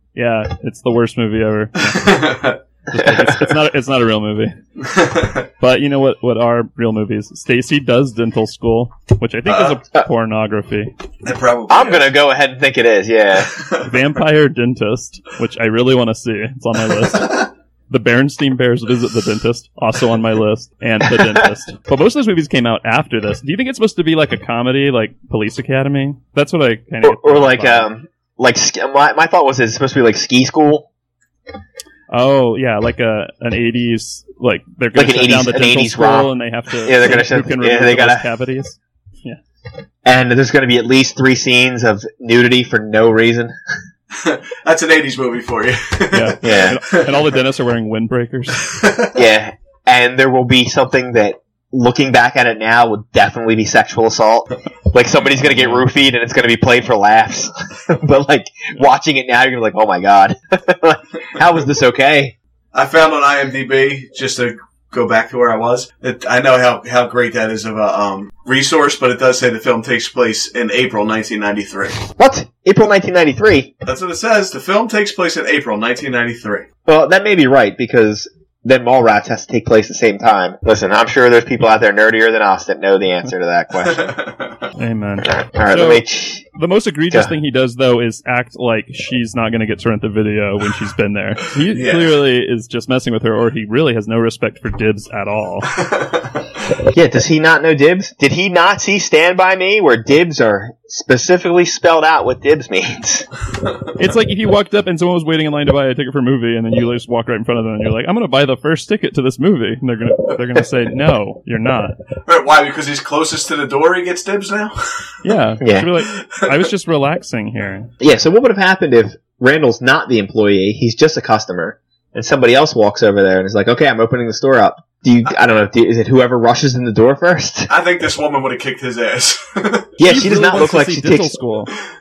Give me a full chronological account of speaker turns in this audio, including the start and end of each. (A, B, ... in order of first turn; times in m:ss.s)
0:00.1-0:02.4 A
0:01.8-0:02.6 B
0:02.9-0:04.6 A
0:03.0-0:03.4 C
0:04.8-0:05.4 B
0:05.6-0:10.9 A
0:09.5-0:09.8 B
0:11.2-0:12.1 B
0:11.7-0:13.5 C
0:13.4-0:13.9 B
0:13.8-0:27.9 A
0:27.0-0:30.9 C
0:32.1-0:39.4 A
0:34.9-0:36.3 C
0:36.8-0:38.2 C
0:40.0-0:43.5 C
0:44.1-0:47.1 B
0:46.1-0:48.6 A
0:46.4-0:46.8 C
0:48.6-0:49.1 B
0:49.1-1:02.3 C
0:55.4-0:55.8 A
1:02.7-1:12.0 B
1:12.2-1:13.7 C
1:13.8-1:16.6 B
1:16.8-1:24.1 C
1:23.8-1:24.5 B
1:24.8-1:26.0 A
1:25.3-1:26.4 C
1:26.5-1:35.7 A
1:31.7-1:32.2 B
1:35.8-1:36.2 B
1:36.9-1:43.2 C
1:44.0-1:52.0 A
1:52.3-1:55.0 B
1:55.2-1:57.9 A
1:55.6-1:55.9 C
1:56.1-1:56.5 B
1:58.0-2:07.7 C
2:07.7-2:09.9 B
2:10.0-2:11.3 C
2:10.0-2:11.7 A